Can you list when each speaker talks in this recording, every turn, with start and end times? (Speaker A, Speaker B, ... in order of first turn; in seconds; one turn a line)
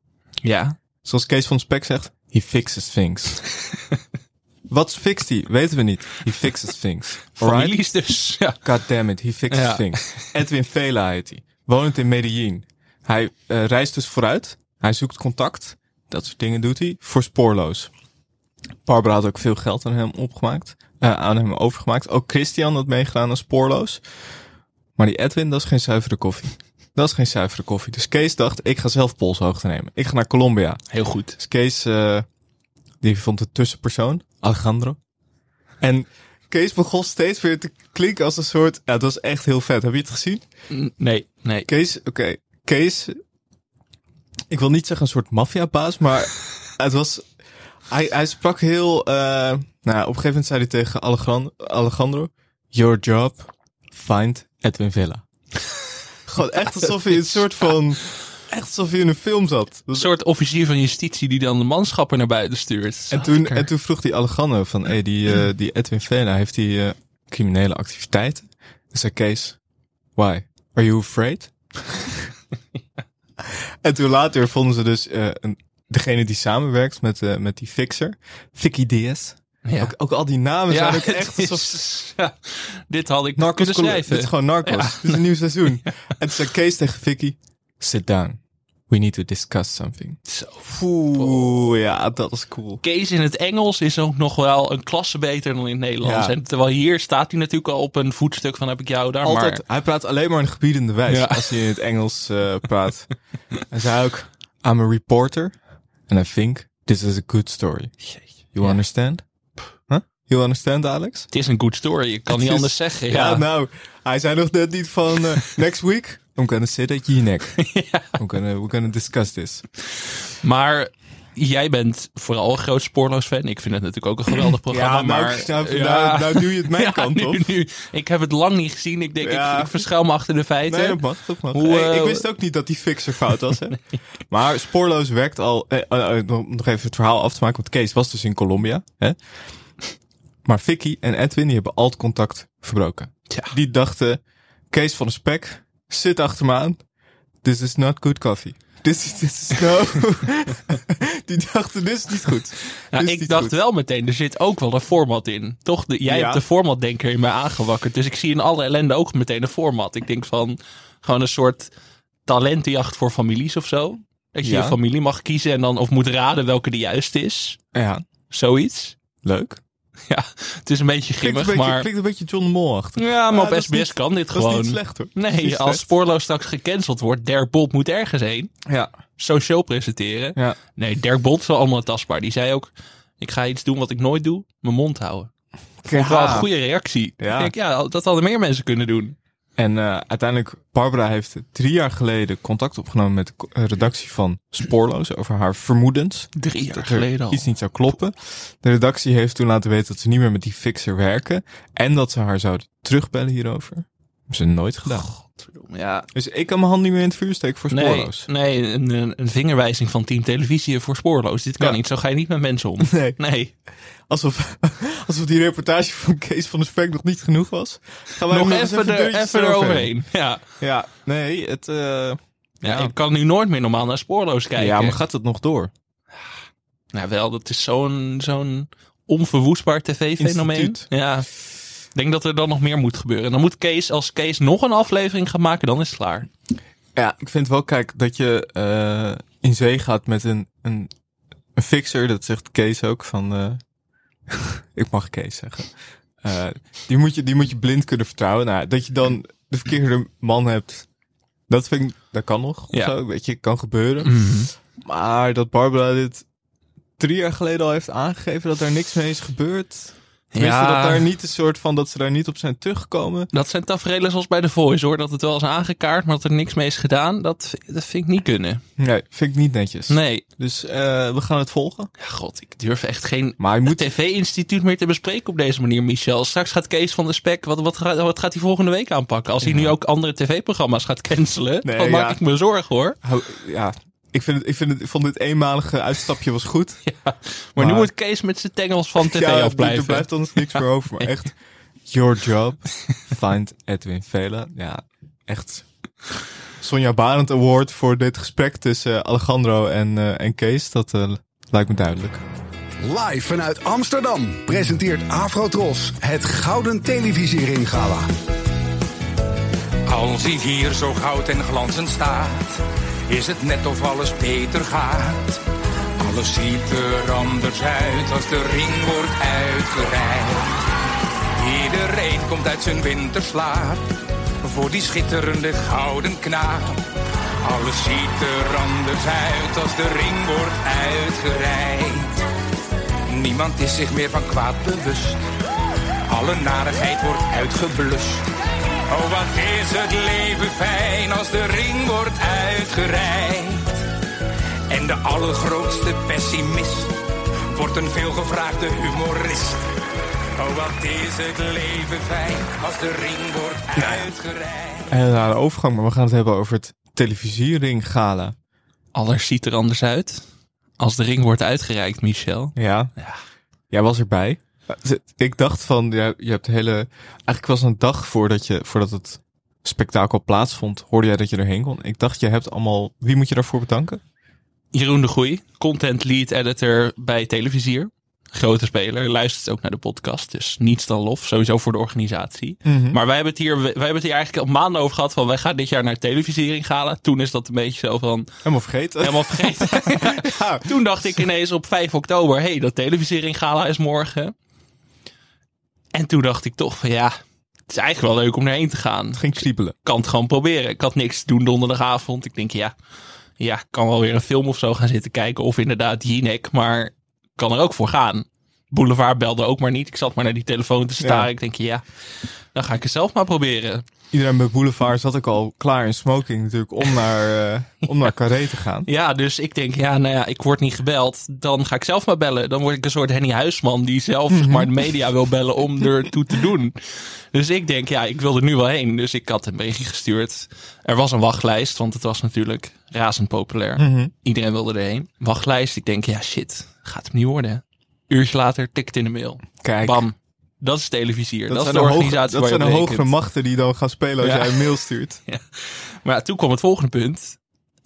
Speaker A: 0.4-0.8
Speaker B: 1.0-3.4
Speaker B: 4.7-7.8
Speaker A: 7.3-8.6
Speaker B: 8.6-17.9
Speaker A: 9.5-10.3
Speaker B: 18.8-24.0
Speaker B: 25.0-30.8
Speaker A: 30.9-31.4
Speaker B: 31.4-32.2
Speaker B: 33.0-35.0
Speaker B: 35.8-40.4
Speaker A: 40.7-41.7
Speaker B: 41.7-43.2
Speaker B: 44.5-47.3
Speaker B: 47.9-55.2
Speaker B: 56.3-60.1
Speaker A: 60.0-63.7
Speaker B: 63.1-69.6
Speaker B: 70.2-72.1
Speaker B: 73.4-81.8
Speaker A: 79.6-79.9
Speaker A: 80.7-85.2
Speaker B: 83.4-90.2
Speaker A: 90.3-91.6
Speaker B: 90.7-92.8
Speaker A: 92.8-99.6
Speaker B: 96.0-96.3
Speaker B: 99.2-103.1
Speaker A: 101.1-101.7
Speaker B: 103.7-105.5
Speaker B: 106.1-108.0
Speaker A: 108.1-108.8
Speaker B: 108.5-109.2
Speaker B: 109.9-111.3
Speaker A: 111.3-113.4
Speaker B: 112.3-117.6
Speaker A: 117.6-118.1
Speaker B: 118.1-119.6
Speaker A: 120.4-132.2
Speaker B: 124.7-127.5
Speaker B: 129.2-129.8
Speaker B: 130.7-139.2
Speaker B: 140.4-146.8
Speaker B: 147.4-153.6
Speaker A: 152.9-161.7
Speaker B: 156.1-156.4
Speaker A: 162.2-167.6
Speaker B: 164.4-164.8
Speaker B: 167.7-168.0
Speaker A: 168.3-168.9
Speaker B: 169.2-169.6
Speaker A: 170.1-171.9
Speaker B: 171.2-175.8
Speaker A: 172.9-178.5
Speaker B: 178.7-178.9
Speaker A: 179.2-185.3
Speaker B: 185.8-186.5
Speaker A: 185.9-189.2
Speaker B: 187.2-187.5
Speaker B: 189.6-205.1
Speaker A: 196.3-197.5
Speaker A: 204.9-206.1
Speaker B: 206.1-208.3
Speaker A: 207.7-213.5
Speaker B: 212.8-213.2
Speaker B: 214.1-219.9
Speaker A: 218.3-220.4
Speaker B: 220.6-222.9
Speaker A: 222.6-225.0
Speaker B: 224.6-225.7
Speaker A: 226.9-231.3
Speaker B: 230.2-230.8
Speaker A: 231.9-236.3
Speaker B: 236.9-240.9
Speaker B: 241.6-243.6
Speaker B: 244.3-245.7
Speaker B: 246.2-250.8
Speaker B: 251.5-256.2
Speaker A: 254.0-254.5
Speaker B: 257.0-263.3
Speaker A: 260.3-261.0
Speaker A: 263.3-268.6
Speaker B: 268.8-271.9
Speaker A: 269.9-270.2
Speaker A: 272.0-283.0
Speaker B: 273.4-273.9
Speaker B: 279.4-279.7
Speaker B: 281.6-282.2
Speaker B: 283.0-286.8
Speaker A: 286.9-291.1
Speaker B: 287.6-287.9
Speaker B: 289.0-291.3
Speaker B: 291.8-295.6
Speaker B: 296.6-302.2
Speaker C: 302.8-308.1
Speaker D: 309.9-315.4
Speaker D: 316.0-320.5
Speaker D: 321.3-323.9
Speaker D: 324.4-326.8
Speaker D: 327.4-332.2
Speaker D: 333.1-335.3
Speaker D: 336.1-338.3
Speaker D: 338.9-343.8
Speaker D: 344.7-346.9
Speaker D: 347.5-349.6
Speaker D: 350.4-354.9
Speaker B: 353.8-354.1
Speaker B: 354.9-358.3
Speaker A: 358.9-360.2
Speaker A: 360.8-363.2
Speaker B: 362.6-362.9
Speaker B: 363.7-374.0
Speaker A: 374.7-388.3
Speaker B: 382.6-383.0
Speaker B: 388.4-390.7
Speaker A: 389.0-394.3
Speaker A: 395.9-397.1
Speaker A: 397.7-402.7
Speaker B: 399.1-399.8
Speaker A: 403.4-411.8
Speaker B: 411.0-411.3
Speaker A: 412.5-413.8
Speaker B: 414.1-418.9
Speaker A: 418.8-443.1
Speaker B: 424.3-424.7
Speaker B: 433.8-434.1
Speaker B: 439.6-440.0
Speaker B: 441.5-445.2
Speaker A: 444.2-444.7
Speaker A: 445.2-447.4